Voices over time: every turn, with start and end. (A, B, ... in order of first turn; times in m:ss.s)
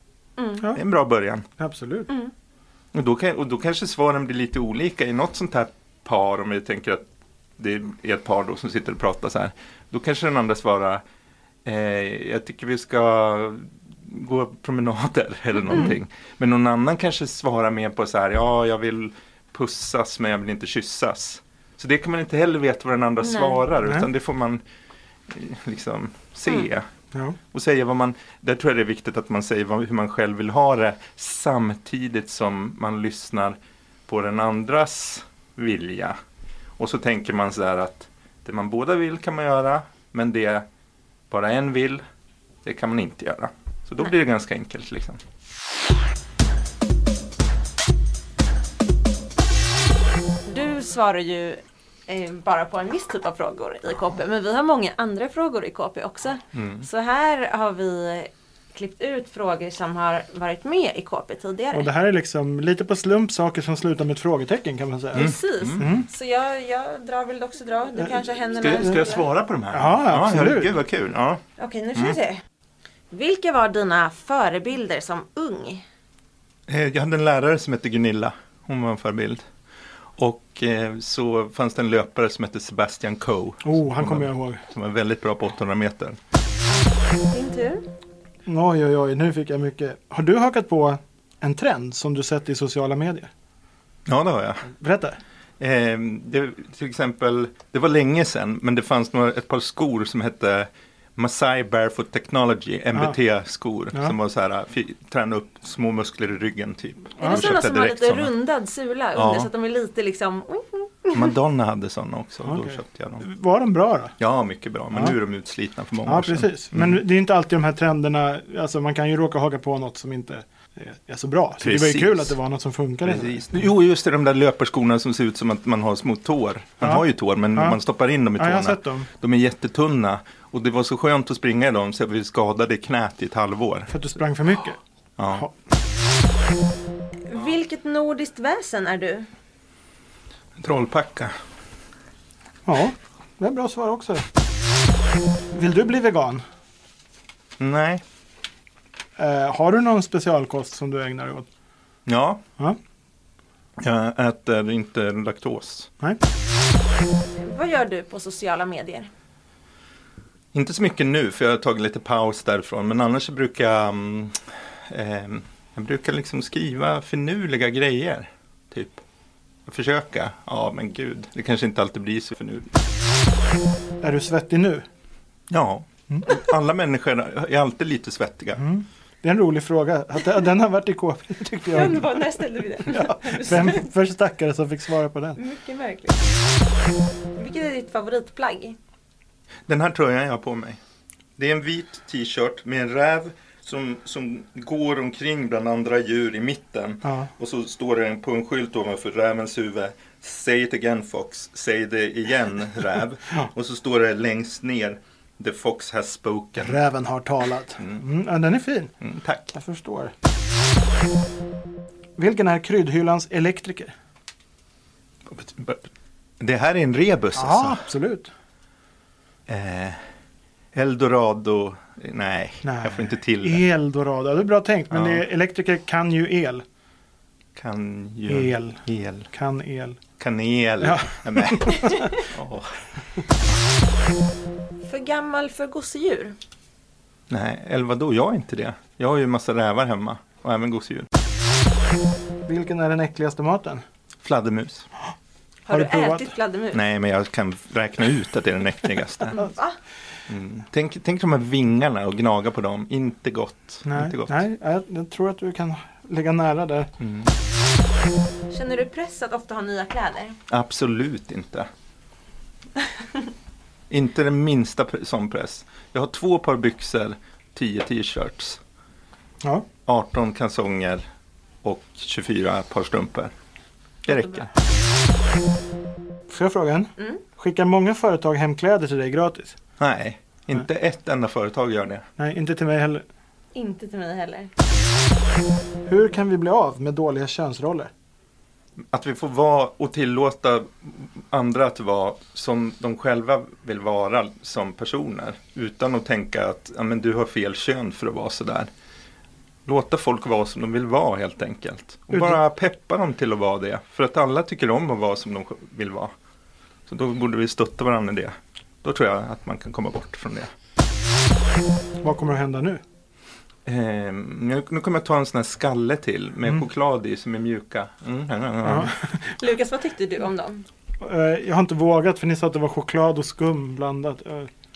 0:00.4-0:00.7 A
0:00.7-0:01.4 B
0:01.6-0:02.1 C
0:02.9-0:07.1 B
0:07.6-0:11.0 B
0:11.6-0:24.6 B
0:23.2-0:23.6 A
0:25.3-0:26.9 B
0:27.5-0:36.2 B
0:36.8-0:40.7 B
0:41.3-0:42.0 B
0:42.6-0:45.2 B
0:50.5-1:01.9 A
0:56.5-0:56.9 B
1:01.7-1:06.1 C
1:05.1-1:09.2 A
1:05.2-1:05.9 B
1:08.6-1:11.4 B
1:09.7-1:10.7 C
1:11.6-1:12.4 A
1:13.1-1:15.8 A
1:16.7-1:19.5 B
1:20.2-1:26.2 B
1:23.6-1:24.6 C
1:26.7-1:27.8 A
1:28.5-1:33.3 C
1:34.1-1:34.7 B
1:34.7-1:35.2 C
1:35.6-1:48.3 B
1:47.2-1:47.5 C
1:47.2-1:51.3 A
1:49.2-1:49.5 B
1:51.1-1:53.2 B
1:52.4-1:54.2 C
1:54.2-1:57.0 B
1:56.1-2:03.6 C
2:01.6-2:02.4 B
2:03.0-2:13.9 B
2:06.8-2:07.0 C
2:08.4-2:09.1 C
2:13.9-2:14.8 C
2:15.2-2:15.5 B
2:17.3-2:19.3 A
2:20.6-2:21.3 B
2:22.7-2:24.3 C
2:25.5-2:26.4 C
2:27.6-2:28.0 B
2:29.2-2:31.5 C
2:32.1-2:32.4 B
2:33.8-2:35.9 B
2:37.4-2:39.1 A
2:40.5-2:49.0 B
2:49.7-2:52.8 B
2:54.0-2:54.8 C
2:55.5-2:58.6 B
2:58.6-3:02.4 C
3:01.7-3:03.9 A
3:02.9-3:05.4 C
3:05.4-3:06.2 A
3:07.4-3:08.8 A
3:09.7-3:10.8 B
3:11.4-3:26.8 B
3:26.6-3:28.9 C
3:29.0-3:29.6 B
3:29.5-3:30.1 C
3:32.2-3:33.9 C
3:35.3-3:35.9 B
3:36.4-3:37.8 B
3:37.4-3:38.3 C
3:39.5-3:40.0 B
3:40.7-3:43.6 B
3:42.6-3:46.6 C
3:44.9-3:45.2 B
3:47.6-3:49.3 B
3:48.3-3:50.0 C
3:50.2-3:52.8 B
3:50.8-3:52.3 C
3:54.8-3:56.4 A
3:57.3-4:01.1 B
4:02.5-4:03.8 C
4:04.2-4:04.9 B
4:05.7-4:06.8 A
4:05.7-4:06.3 C
4:06.7-4:09.4 B
4:09.3-4:09.8 A
4:10.3-4:14.4 B
4:13.8-4:16.9 C
4:17.0-4:17.3 B
4:18.5-4:20.4 A
4:20.5-4:21.7 B
4:23.9-4:28.6 B
4:29.9-4:31.1 B
4:31.6-4:33.3 B
4:34.0-4:34.5 B
4:34.1-4:34.5 A
4:36.3-4:39.6 C
4:39.8-4:42.0 B
4:42.2-4:43.0 C
4:43.6-4:44.5 A
4:45.9-4:47.9 C
4:48.8-4:58.7 B
4:59.7-5:06.1 B
5:02.1-5:02.4 C
5:06.9-5:10.5 B
5:12.0-5:12.8 C
5:13.7-5:18.9 B
5:18.6-5:19.1 C
5:19.3-5:20.7 A
5:21.0-5:24.5 C